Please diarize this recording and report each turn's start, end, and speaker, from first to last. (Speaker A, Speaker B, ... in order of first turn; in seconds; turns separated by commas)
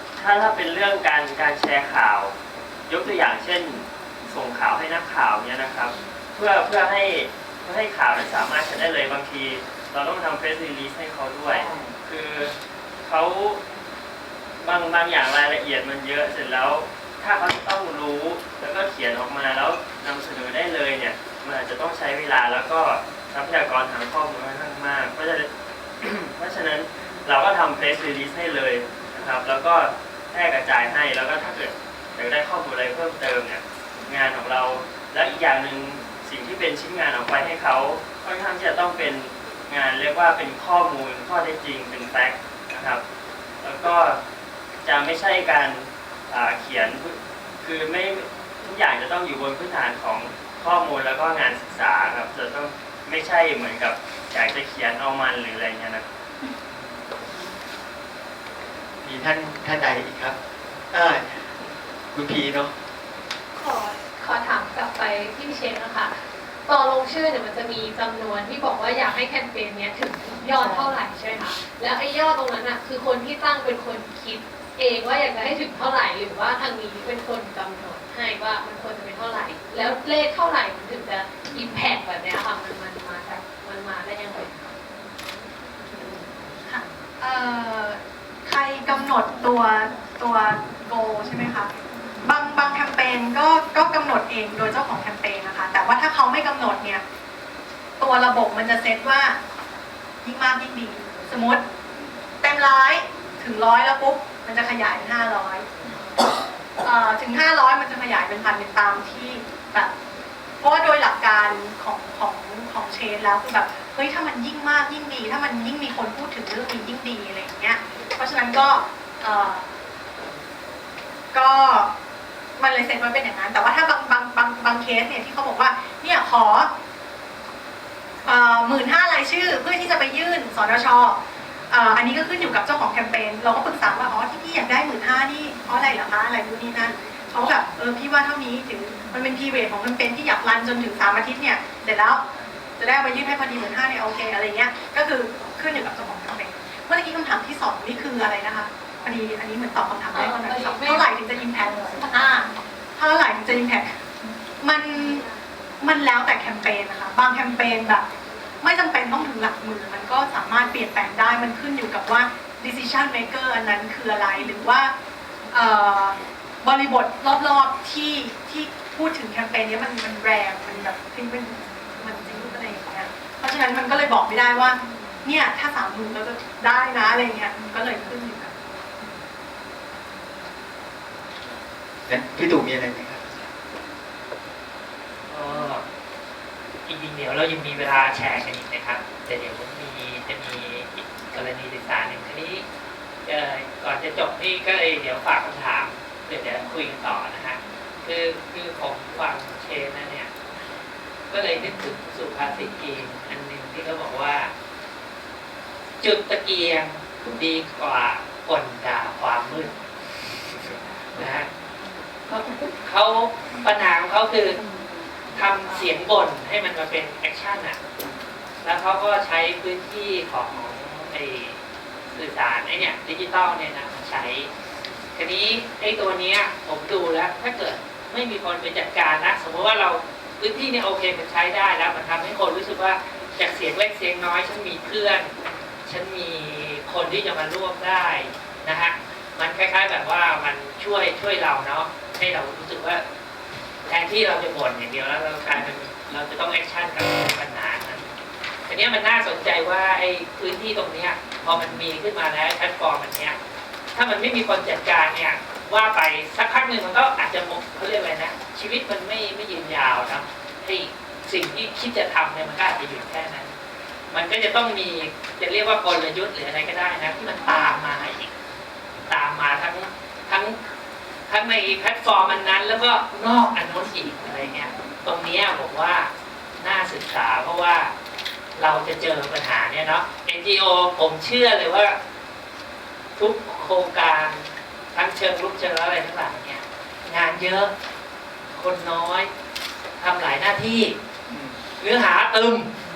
Speaker A: 0.2-2.3, Speaker A: 2.9-12.5, Speaker A: 13.0-13.6, Speaker A: 14.6-25.5, Speaker A: 26.0-43.0, Speaker A: 43.6-44.2, Speaker A: 44.8-56.0, Speaker B: 59.0-60.4, Speaker B: 60.9-61.4, Speaker B: 62.1-62.7, Speaker C: 63.6-64.0, Speaker D: 64.2-66.1, Speaker D: 66.7-84.8, Speaker C: 86.7-91.7, Speaker C: 92.2-97.0, Speaker C: 98.0-99.4, Speaker C: 100.2-101.6, Speaker C: 102.4-105.7, Speaker C: 106.8-109.9, Speaker C: 110.6-119.7, Speaker C: 121.3-121.9, Speaker C: 122.6-126.7, Speaker C: 128.2-131.2, Speaker C: 131.7-142.2, Speaker C: 142.8-154.0, Speaker D: 150.1-151.1, Speaker D: 151.7-152.1, Speaker C: 154.6-155.2, Speaker C: 155.8-158.1, Speaker C: 158.6-164.9, Speaker C: 165.5-178.5, Speaker B: 182.1-183.2, Speaker E: 185.3-185.8, Speaker E: 186.9-192.7, Speaker E: 193.2-200.3, Speaker E: 201.3-204.5, Speaker E: 206.0-210.3, Speaker E: 211.2-211.5, Speaker E: 212.3-214.6, Speaker E: 215.3-217.8, Speaker E: 218.6-221.6, Speaker E: 222.1-224.5, Speaker E: 225.2-235.3, Speaker E: 235.9-243.0, Speaker E: 243.9-248.1, Speaker E: 248.7-253.4, Speaker E: 253.9-263.6, Speaker E: 264.1-268.3, Speaker E: 269.1-270.6, Speaker E: 271.3-277.9, Speaker E: 278.6-282.0, Speaker E: 283.2-287.7, Speaker E: 288.5-289.3, Speaker E: 290.0-291.0, Speaker B: 291.3-291.6, Speaker E: 291.8-292.8